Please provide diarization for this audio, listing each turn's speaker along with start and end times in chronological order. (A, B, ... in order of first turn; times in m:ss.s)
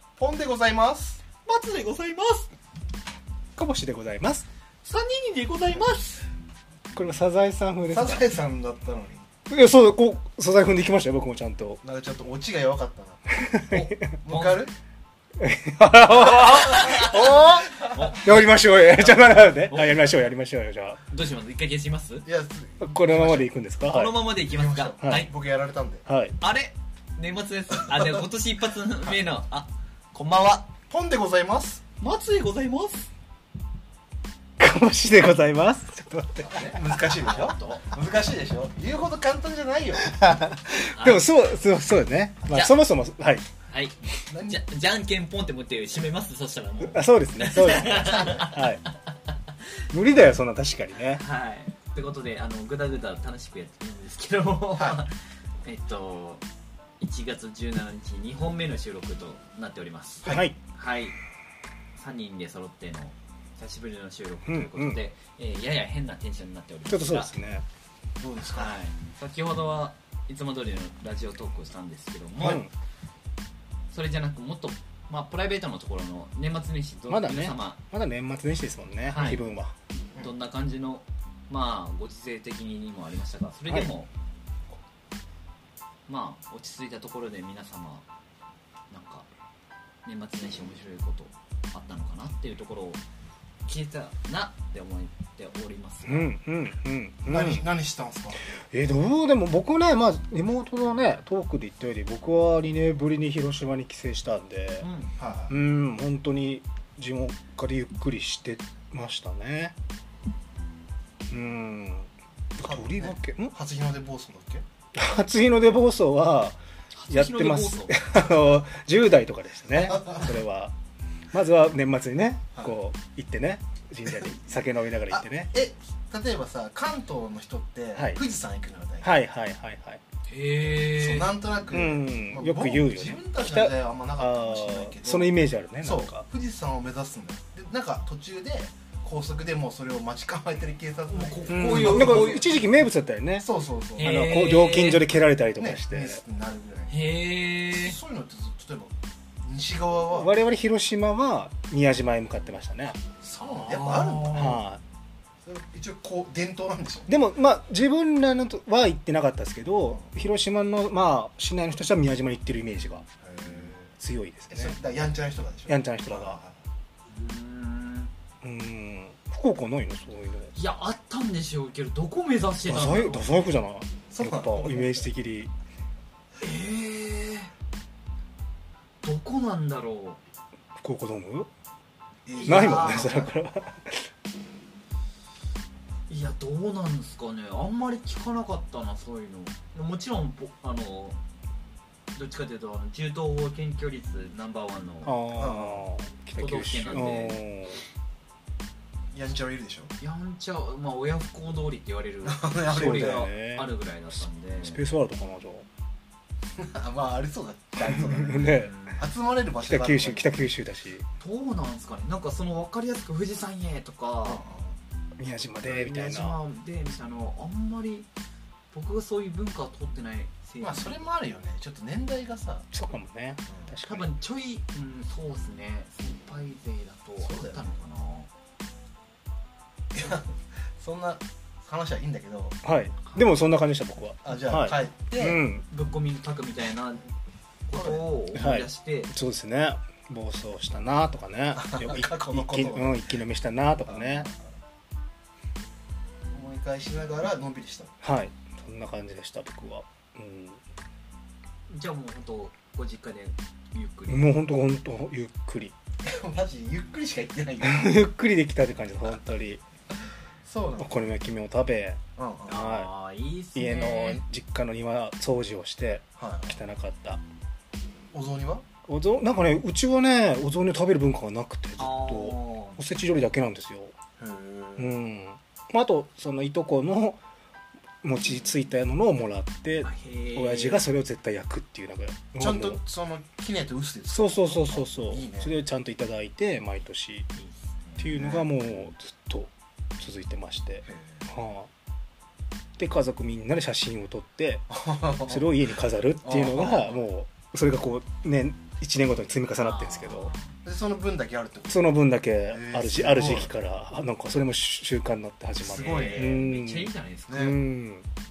0:00.2-0:01.2 A
0:01.4-0:02.5 B
0:03.6-0:04.4 C
0:04.8-0:06.2 B
0:07.0-0:08.3 C
0:07.9-0:09.3 A
0:09.5-0:11.8 C
0:11.8-0:13.3 A
0:13.4-0:13.8 C
0:13.6-0:14.6 B
0:14.2-0:14.7 A
0:15.4-0:21.0 C
0:16.5-0:18.3 B
0:18.9-0:20.1 B
0:21.0-0:22.3 B
0:22.3-0:23.5 A
0:22.8-0:24.2 C
0:23.9-0:25.3 B
0:24.4-0:26.1 A
0:26.1-0:26.4 C
0:26.4-0:30.7 B
0:30.9-0:31.8 A
0:32.0-0:33.1 B
0:34.6-0:36.8 C
0:36.4-0:40.2 A
0:36.8-0:37.9 B
0:40.0-0:43.5 C
0:40.9-0:41.2 B
0:42.5-0:42.8 B
0:43.7-0:49.0 B
0:44.3-0:44.6 A
0:46.8-0:48.8 C
0:49.9-0:51.2 C
0:51.1-0:56.4 B
0:57.0-1:01.2 B
1:00.2-1:00.5 A
1:00.2-1:00.6 C
1:02.0-1:07.3 B
1:04.5-1:05.0 C
1:06.9-1:07.6 C
1:08.2-1:08.8 A
1:08.5-1:12.6 B
1:12.4-1:12.7 C
1:13.9-1:17.8 B
1:17.1-1:19.7 C
1:19.1-1:19.4 B
1:20.1-1:24.1 B
1:26.1-1:28.1 B
1:28.9-1:29.3 B
1:30.0-1:33.0 B
1:33.7-1:36.3 B
1:36.1-1:37.6 C
1:37.3-1:38.4 A
1:38.6-1:44.9 C
1:44.8-1:45.1 B
1:45.2-1:45.6 A
1:45.5-1:49.8 C
1:51.3-1:53.5 C
1:52.6-1:54.6 A
1:55.0-1:56.6 C
1:56.9-1:58.4 B
1:57.1-2:00.7 C
1:59.8-2:00.3 A
2:01.3-2:05.5 C
2:04.1-2:09.2 A
2:08.0-2:08.2 C
2:09.0-2:10.0 C
2:10.3-2:11.4 B
2:10.9-2:22.5 A
2:11.7-2:16.3 C
2:21.1-2:22.6 B
2:21.5-2:23.5 C
2:23.4-2:24.2 A
2:24.0-2:25.0 B
2:24.0-2:26.2 C
2:25.6-2:27.0 A
2:26.9-2:28.0 B
2:27.7-2:30.3 A
2:30.1-2:33.0 C
2:33.2-2:34.6 A
2:33.4-2:34.5 B
2:34.2-2:34.8 C
2:35.4-2:37.1 A
2:37.1-2:43.1 C
2:43.2-2:43.9 A
2:44.0-2:44.8 C
2:44.5-2:46.6 A
2:45.7-2:46.4 C
2:47.1-2:48.1 B
2:48.4-2:50.5 C
2:50.6-2:53.3 B
2:52.7-2:55.5 C
2:54.1-2:55.0 A
2:56.4-2:57.5 B
2:59.0-3:00.2 B
3:00.8-3:01.5 C
3:02.3-3:03.4 A
3:02.4-3:03.2 B
3:02.5-3:04.1 C
3:06.1-3:11.2 B
3:12.1-3:15.2 B
3:15.0-3:17.8 C
3:15.4-3:15.9 A
3:16.4-3:17.4 B
3:19.1-3:19.9 A
3:20.0-3:24.8 B
3:22.2-3:23.3 A
3:22.7-3:23.7 C
3:24.6-3:25.7 C
3:26.6-3:30.4 A
3:27.9-3:28.9 C
3:28.3-3:29.0 B
3:29.6-3:31.1 C
3:31.2-3:34.4 B
3:34.2-3:34.8 A
3:35.2-3:36.4 C
3:35.6-3:38.1 B
3:38.7-3:41.1 B
3:40.6-3:42.7 A
3:42.7-3:44.1 C
3:43.8-3:48.3 B
3:47.2-3:47.7 A
3:49.9-3:52.6 A
3:52.6-3:55.6 C
3:54.2-3:55.4 A
3:55.7-3:57.0 B
3:57.7-3:59.1 B
3:57.7-3:58.1 A
3:58.3-4:04.3 C
4:01.6-4:03.1 A
4:03.9-4:04.4 A
4:06.3-4:08.0 A
4:08.0-4:10.6 C
4:11.7-4:14.3 B
4:14.1-4:15.7 C
4:16.0-4:18.0 A
4:17.6-4:19.6 C
4:20.4-4:21.0 A
4:20.8-4:22.9 C
4:22.2-4:22.5 A
4:22.5-4:24.2 B
4:23.5-4:27.2 C
4:26.2-4:26.6 A
4:28.1-4:28.6 A
4:28.9-4:33.9 C
4:31.8-4:32.8 B
4:34.2-4:34.9 A
4:34.8-4:37.2 C
4:38.0-4:42.8 C
4:39.8-4:40.9 B
4:42.4-4:45.5 A
4:44.1-4:47.3 C
4:47.4-4:48.1 B
4:48.0-4:51.7 C
4:48.1-4:48.5 A
4:50.9-4:51.3 A
4:52.8-4:54.8 C
4:54.7-4:55.5 A
4:55.3-5:00.3 C
4:56.2-4:57.0 A
4:59.6-5:00.5 B
5:00.6-5:01.8 A
5:01.7-5:08.1 C
5:02.5-5:03.5 A
5:05.6-5:06.4 A
5:05.6-5:07.5 B
5:07.3-5:07.6 A